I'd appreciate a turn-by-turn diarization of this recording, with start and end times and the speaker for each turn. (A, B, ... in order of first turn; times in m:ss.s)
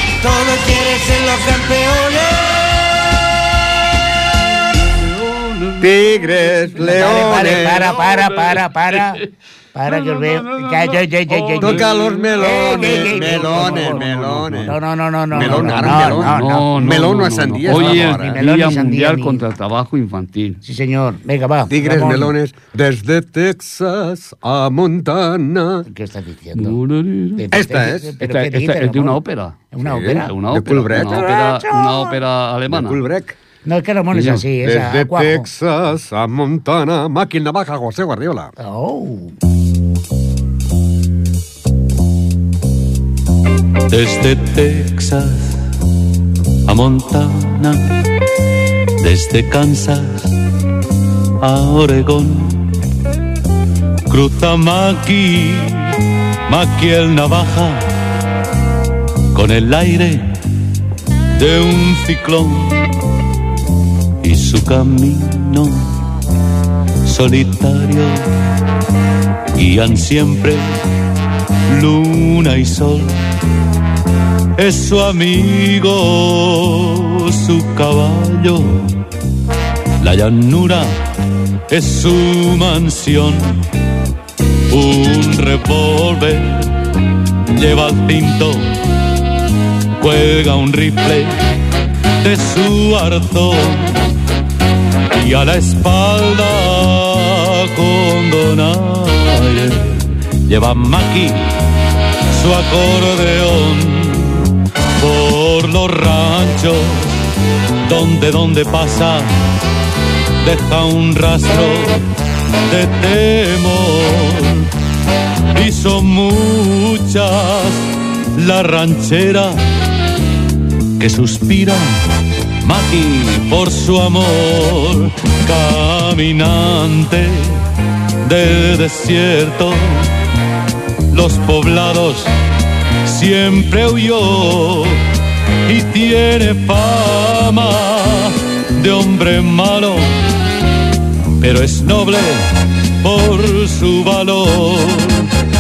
0:00.2-0:02.9 A
0:05.0-0:06.5 B
0:05.8-0:07.9 C
0:06.8-0:09.2 D
0:07.8-0:08.6 B
0:09.7-0:16.7 D
0:09.8-0:10.8 B
0:11.3-0:12.1 E
0:11.6-0:14.8 C
0:12.0-0:12.4 B
0:15.3-0:18.4 C
0:15.3-0:20.6 E
0:17.7-0:19.4 D
0:20.6-0:22.4 D
0:21.7-0:25.8 C
0:25.9-0:26.8 D
0:26.5-0:27.5 E
0:27.4-0:29.2 D
0:27.5-0:28.1 C
0:28.2-0:33.0 E
0:29.7-0:30.3 D
0:29.8-0:31.2 C
0:30.9-0:32.2 D
0:32.7-0:33.4 C
0:33.6-0:35.5 D
0:34.6-0:38.5 C
0:38.6-0:39.4 D
0:43.9-0:45.6 B
0:46.7-0:48.0 B
0:49.0-0:50.3 B
0:51.4-0:52.6 B
0:54.1-0:56.0 B
0:56.5-0:57.9 B
0:59.3-1:00.3 B
1:01.4-1:02.8 B
1:04.2-1:05.9 B
1:07.0-1:08.3 B
1:09.6-1:10.8 B
1:11.7-1:13.2 B
1:14.6-1:19.0 B
1:20.0-1:21.0 B
1:21.7-1:23.6 B
1:24.7-1:26.7 B
1:27.5-1:28.7 B
1:30.0-1:31.4 B
1:32.2-1:34.0 B
1:35.1-1:41.6 B
1:42.3-1:47.1 B
1:47.8-1:49.4 B
1:50.4-1:52.1 B
1:52.7-1:54.7 B
1:55.5-1:59.6 B
2:01.0-2:02.0 B
2:02.6-2:07.6 B
2:08.2-2:10.1 B
2:11.1-2:12.3 B
2:13.0-2:15.0 B
2:15.7-2:20.2 B
2:21.4-2:25.3 B